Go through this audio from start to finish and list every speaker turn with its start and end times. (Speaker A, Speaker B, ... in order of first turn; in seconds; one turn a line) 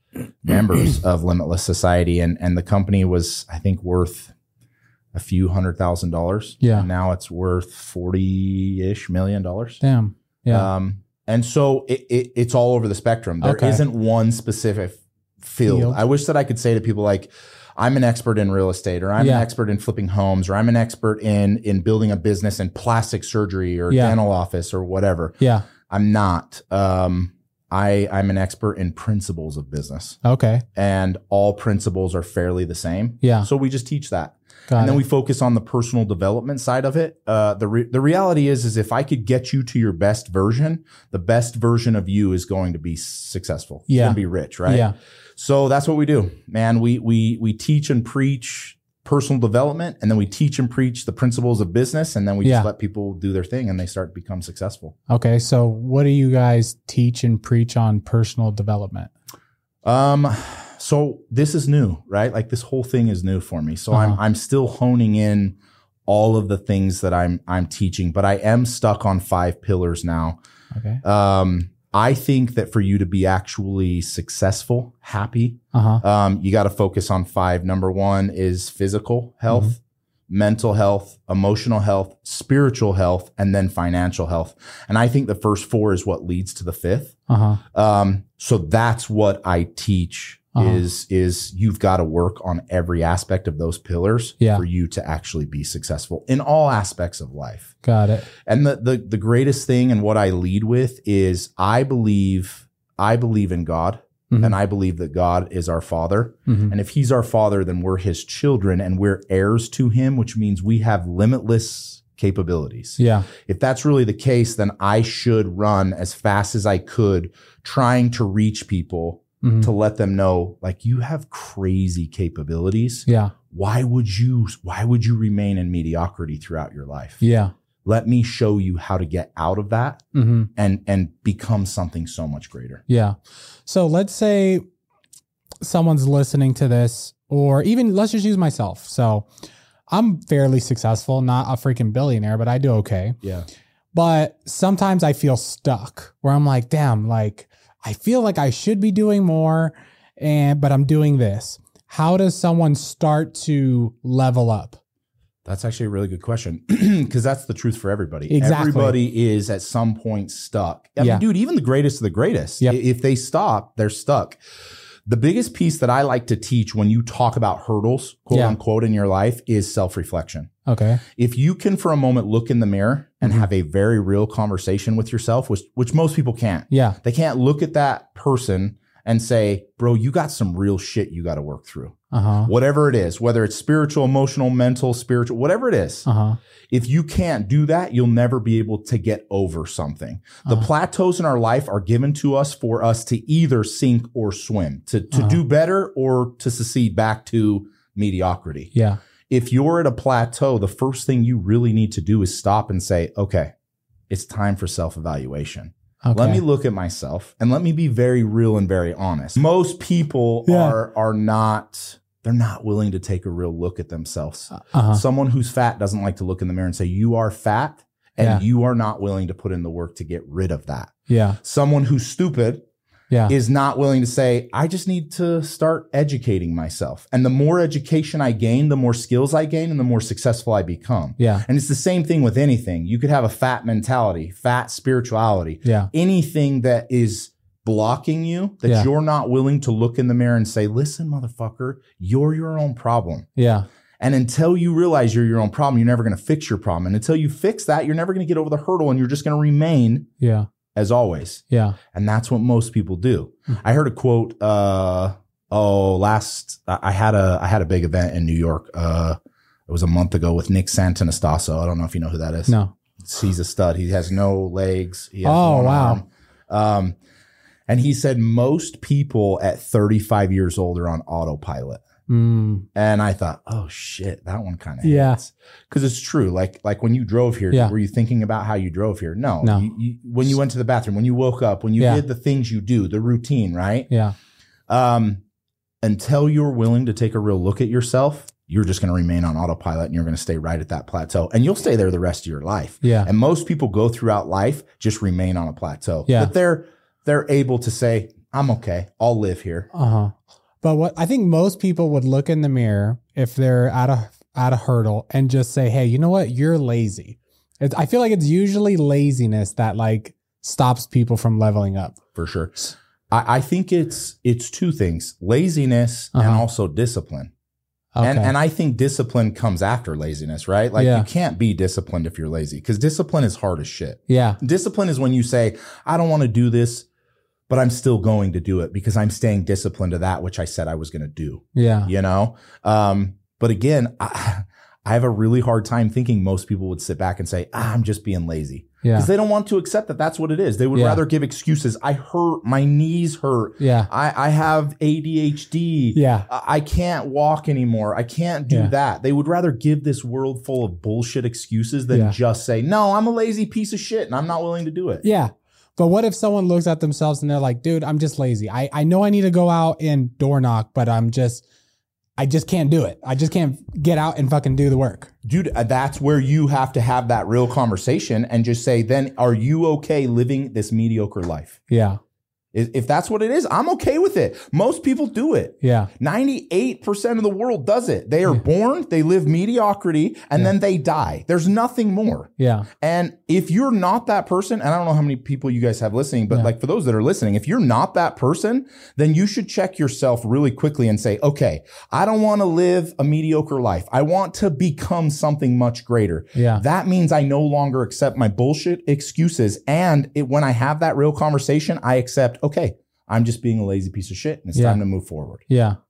Speaker A: 0.4-4.3
Speaker A: 5.1-9.8
Speaker B: 6.6-6.9
Speaker B: 9.8-10.7
Speaker A: 10.5-25.4
Speaker B: 13.4-13.8
Speaker B: 15.7-16.0
Speaker B: 19.2-19.4
Speaker B: 23.9-24.2
Speaker B: 25.4-25.7
Speaker A: 25.9-30.2
Speaker B: 30.2-30.6
Speaker A: 30.7-54.9
Speaker B: 33.2-33.5
Speaker B: 34.7-35.0
Speaker B: 43.9-44.9
Speaker B: 52.4-52.7
Speaker B: 55.1-59.1
Speaker A: 59.8-70.4
Speaker B: 63.9-64.2
Speaker B: 70.7-71.0
Speaker A: 71.0-79.8
Speaker B: 75.7-76.0
Speaker A: 80.3-87.2
Speaker B: 87.3-87.6
Speaker A: 87.7-97.7
Speaker B: 90.6-90.8
Speaker B: 97.8-98.3
Speaker A: 98.4-127.2
Speaker B: 104.3-104.6
Speaker B: 106.5-106.7
Speaker B: 113.0-113.3
Speaker B: 119.4-119.7
Speaker B: 123.1-123.3
Speaker B: 127.2-127.5
Speaker A: 127.8-130.0
Speaker B: 130.1-130.5
Speaker A: 130.6-132.8
Speaker B: 132.9-134.6
Speaker B: 135.6-139.3
Speaker B: 139.9-143.2
Speaker A: 143.2-143.5
Speaker B: 143.9-154.8
Speaker A: 155.4-164.4
Speaker B: 158.3-159.0
Speaker B: 161.0-161.2
Speaker A: 165.1-170.5
Speaker B: 168.3-168.6
Speaker B: 170.7-171.0
Speaker A: 171.2-186.1
Speaker B: 176.7-177.0
Speaker B: 182.1-182.5
Speaker B: 186.0-186.4
Speaker A: 186.7-198.7
Speaker B: 195.1-195.4
Speaker B: 198.7-199.0
Speaker A: 199.3-203.5
Speaker A: 204.1-222.6
Speaker B: 206.0-206.4
Speaker B: 210.5-210.8
Speaker B: 214.5-215.0
Speaker B: 221.1-221.4
Speaker A: 223.3-243.3
Speaker B: 231.2-231.4
Speaker B: 235.6-235.9
Speaker B: 243.4-243.7
Speaker A: 244.0-250.1
Speaker B: 250.2-250.5
Speaker A: 250.8-259.2
Speaker B: 251.5-251.8
Speaker A: 259.7-266.9
Speaker B: 262.5-262.7
Speaker B: 265.2-266.0
Speaker A: 267.7-271.8
Speaker B: 272.1-272.6
Speaker A: 272.8-283.9
Speaker B: 274.8-275.2
Speaker B: 281.8-282.0
Speaker A: 284.7-285.2
Speaker A: 285.8-299.7
Speaker B: 292.8-293.1
Speaker B: 296.1-296.3
Speaker B: 299.7-312.0
Speaker A: 312.1-317.3
Speaker B: 316.1-316.4
Speaker B: 317.9-318.3
Speaker A: 318.0-326.9
Speaker B: 320.8-321.1
Speaker B: 324.1-324.4
Speaker A: 327.5-355.1
Speaker B: 331.6-331.9
Speaker B: 338.8-339.1
Speaker B: 340.7-341.0
Speaker B: 343.6-343.9
Speaker B: 345.9-346.3
Speaker B: 348.5-348.7
Speaker B: 351.9-352.2
Speaker B: 355.0-361.4
Speaker B: 362.2-365.1
Speaker A: 365.2-371.6
Speaker B: 371.7-372.0
Speaker A: 372.5-382.3
Speaker B: 375.6-375.9
Speaker B: 382.4-382.7
Speaker A: 382.8-405.5
Speaker B: 396.3-396.6
Speaker B: 404.6-404.8
Speaker B: 405.5-405.8